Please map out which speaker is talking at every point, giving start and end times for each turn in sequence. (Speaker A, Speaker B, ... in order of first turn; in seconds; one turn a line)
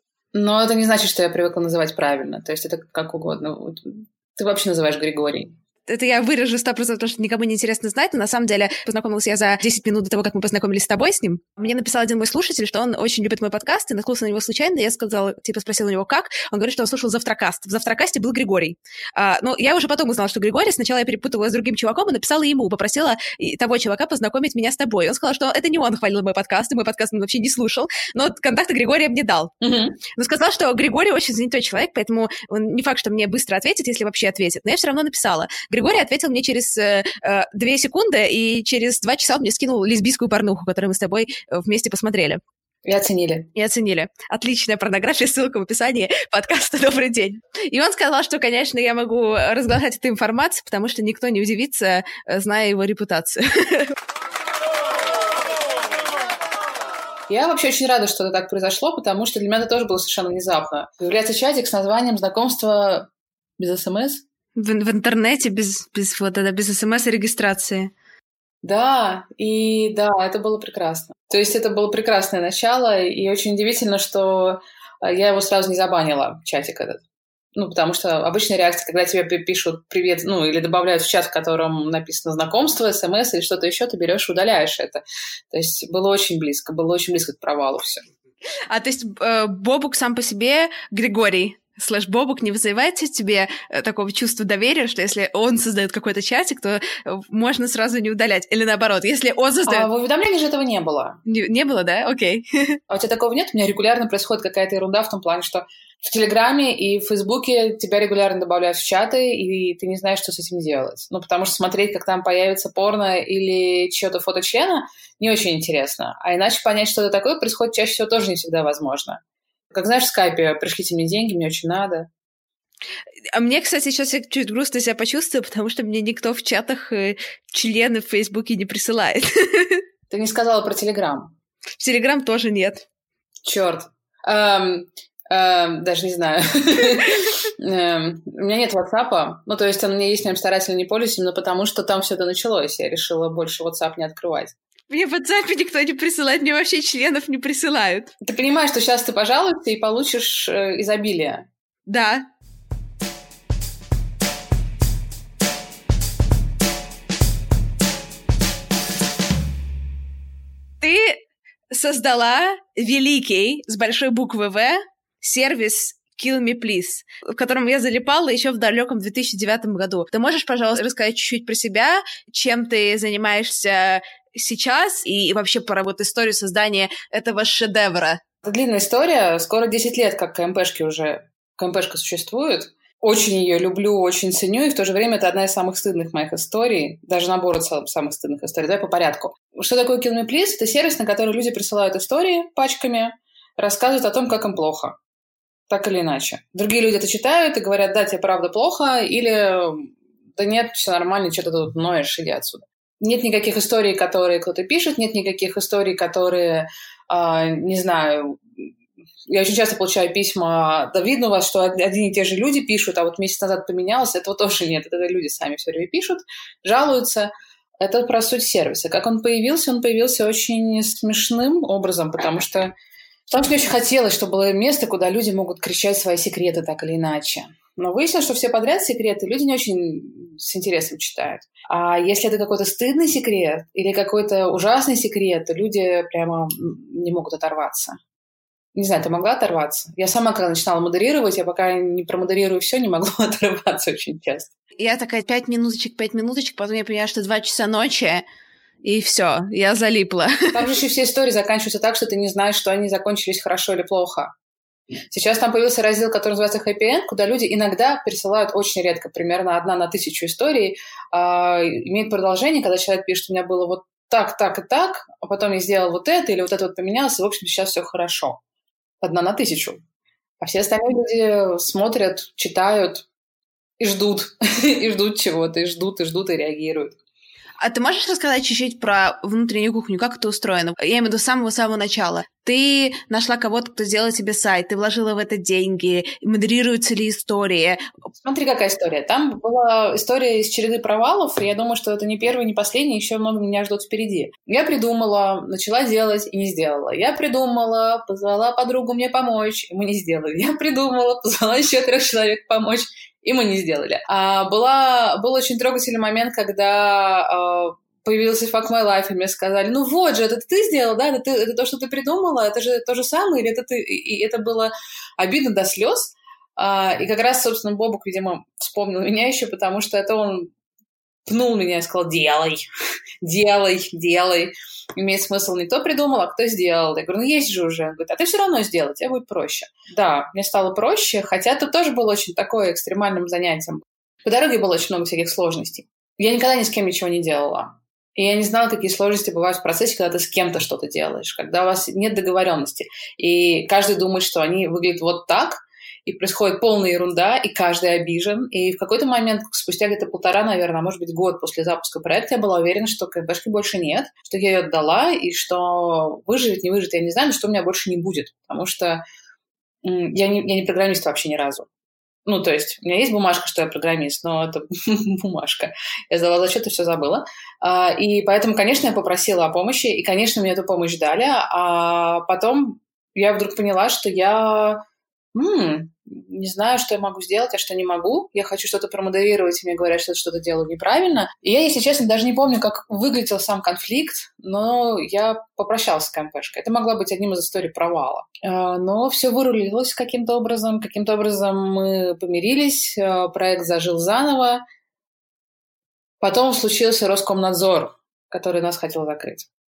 Speaker A: 0.3-5.5
Speaker B: 5.9-29.5
Speaker A: 29.6-30.0
Speaker B: 30.1-42.4
Speaker A: 42.8-43.5
Speaker B: 43.5-53.9
Speaker A: 57.3-64.2
Speaker B: 64.5-67.9
Speaker A: 68.6-77.0
Speaker A: 77.5-88.0
Speaker B: 88.7-99.9
Speaker A: 99.7-101.2
Speaker B: 101.2-102.8
Speaker A: 102.9-119.2
Speaker A: 119.7-122.1
Speaker B: 123.3-129.8
Speaker A: 130.1-131.3
Speaker B: 131.8-132.8
Speaker A: 133.4-144.5
Speaker B: 144.9-148.1
Speaker A: 148.2-151.4
Speaker B: 151.9-152.2
Speaker B: 160.8-178.2
Speaker A: 178.4-194.9
Speaker A: 195.7-208.7
Speaker A: 209.3-222.7
Speaker A: 223.3-238.0
Speaker A: 238.7-244.5
Speaker B: 244.8-248.2
Speaker B: 248.8-250.6
Speaker A: 250.5-254.3
Speaker A: 255.1-268.4
Speaker A: 269.0-269.8
Speaker A: 270.4-273.1
Speaker A: 273.8-277.0
Speaker B: 277.6-287.8
Speaker A: 288.2-320.5
Speaker A: 321.2-322.6
Speaker A: 323.2-359.0
Speaker A: 359.8-361.7
Speaker A: 362.2-374.8
Speaker A: 375.3-394.6
Speaker A: 396.2-399.5